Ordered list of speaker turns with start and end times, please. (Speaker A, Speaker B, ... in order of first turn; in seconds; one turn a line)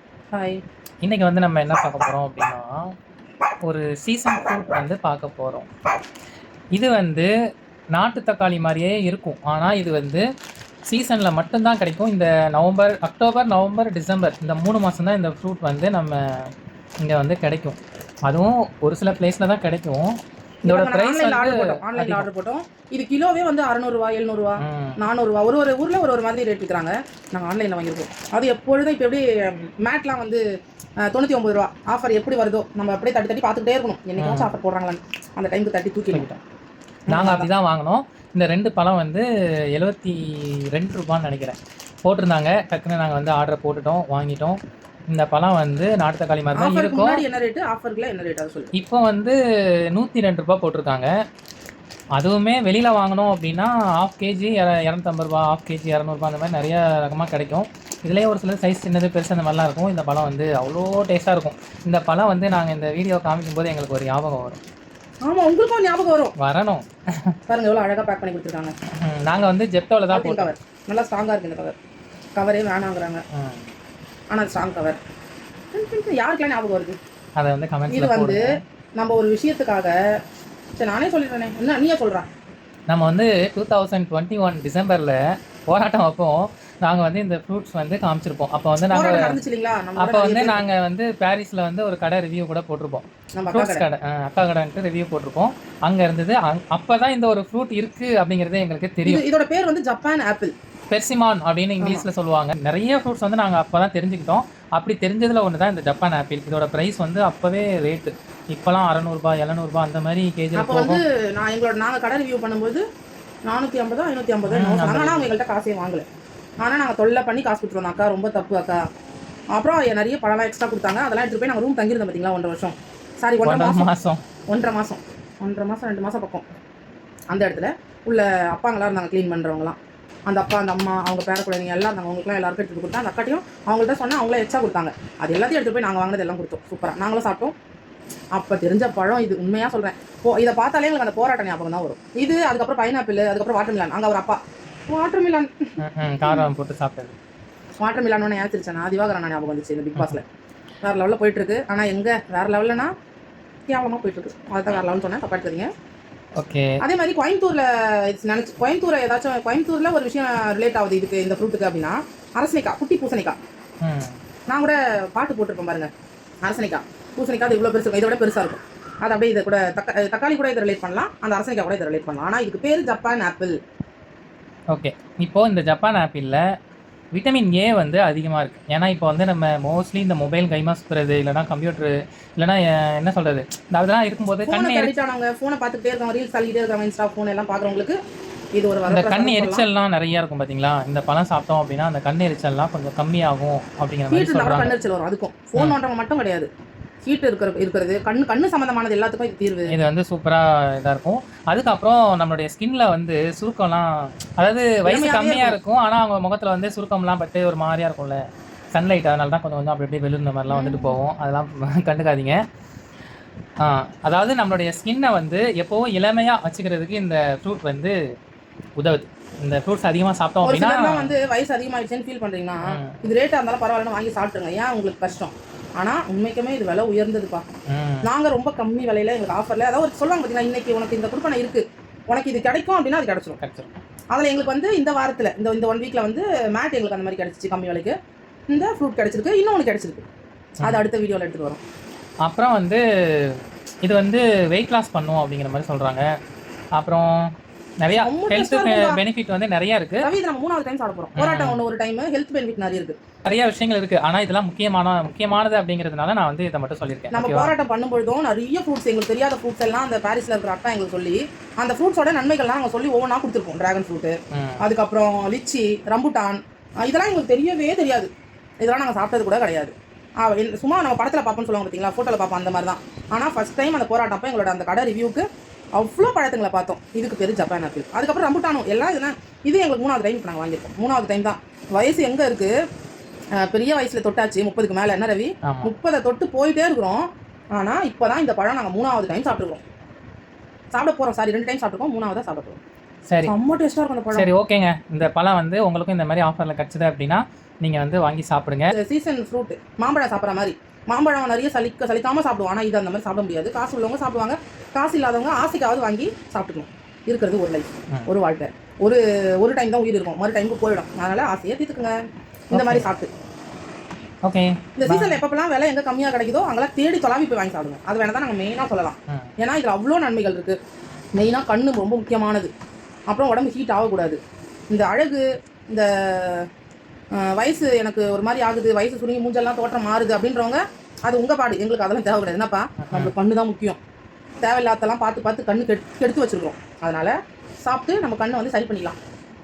Speaker A: 0.3-0.6
Speaker B: 1.0-2.9
Speaker B: 3.6-5.7
Speaker B: 6.7-7.3
Speaker B: 7.9-10.2
Speaker B: 10.9-22.3
Speaker A: 20.6-30.4
Speaker B: 24.6-25.0
Speaker A: 31.0-36.3
Speaker B: 34.2-34.5
Speaker B: 36.1-36.4
Speaker A: 37.1-37.5
Speaker B: 37.1-44.6
Speaker B: 45.1-47.2
Speaker A: 46.6-48.7
Speaker B: 48.7-49.3
Speaker B: 49.9-51.1
Speaker B: 52.1-64.6
Speaker A: 65.2-66.3
Speaker B: 66.4-67.4
Speaker A: 67.5-68.7
Speaker B: 69.0-70.5
Speaker A: 70.1-71.8
Speaker A: 72.3-73.2
Speaker B: 73.3-73.7
Speaker A: 74.3-75.0
Speaker A: 75.7-77.0
Speaker B: 77.4-78.6
Speaker A: 77.9-80.0
Speaker A: 80.8-82.3
Speaker B: 82.9-85.2
Speaker B: 85.7-89.4
Speaker A: 88.9-90.6
Speaker B: 90.0-99.2
Speaker A: 93.3-93.8
Speaker A: 99.0-100.5
Speaker B: 100.9-111.0
Speaker A: 101.8-102.0
Speaker A: 110.6-112.8
Speaker A: 113.5-116.0
Speaker B: 114.5-115.3
Speaker A: 116.6-118.8
Speaker A: 119.5-123.9
Speaker B: 123.4-124.2
Speaker A: 124.5-126.4
Speaker A: 127.3-129.8
Speaker A: 130.3-137.5
Speaker A: 138.3-146.5
Speaker B: 145.8-147.2
Speaker A: 147.8-150.2
Speaker A: 150.8-152.9
Speaker A: 153.7-155.7
Speaker B: 156.4-156.8
Speaker A: 156.8-163.4
Speaker B: 163.8-164.2
Speaker A: 164.5-165.9
Speaker A: 166.4-173.6
Speaker B: 174.7-176.4
Speaker B: 177.1-184.9
Speaker A: 184.4-188.0
Speaker A: 188.5-189.6
Speaker B: 188.9-194.8
Speaker A: 194.1-196.5
Speaker A: 197.0-199.7
Speaker B: 199.7-208.2
Speaker A: 204.8-205.6
Speaker B: 208.7-212.4
Speaker A: 210.5-211.0
Speaker B: 213.6-218.0
Speaker B: 218.8-221.1
Speaker A: 220.4-227.4
Speaker B: 222.6-223.0
Speaker B: 227.7-228.1
Speaker A: 228.0-233.4
Speaker B: 233.4-233.8
Speaker A: 234.1-237.9
Speaker A: 238.5-240.0
Speaker A: 240.6-241.6
Speaker B: 242.2-246.1
Speaker B: 246.8-250.1
Speaker A: 247.9-249.0
Speaker A: 250.0-253.0
Speaker B: 251.2-251.6
Speaker B: 253.2-257.5
Speaker A: 257.1-282.5
Speaker B: 264.3-264.6
Speaker A: 283.4-289.6
Speaker B: 285.4-285.7
Speaker A: 290.7-292.6
Speaker A: 293.2-294.3
Speaker B: 294.1-298.7
Speaker A: 298.7-312.0
Speaker A: 312.5-313.1
Speaker B: 312.5-312.9
Speaker B: 314.2-315.2
Speaker A: 314.8-320.6
Speaker A: 321.1-322.5
Speaker A: 323.1-326.5
Speaker A: 327.1-333.8
Speaker B: 332.8-333.1
Speaker A: 334.4-339.0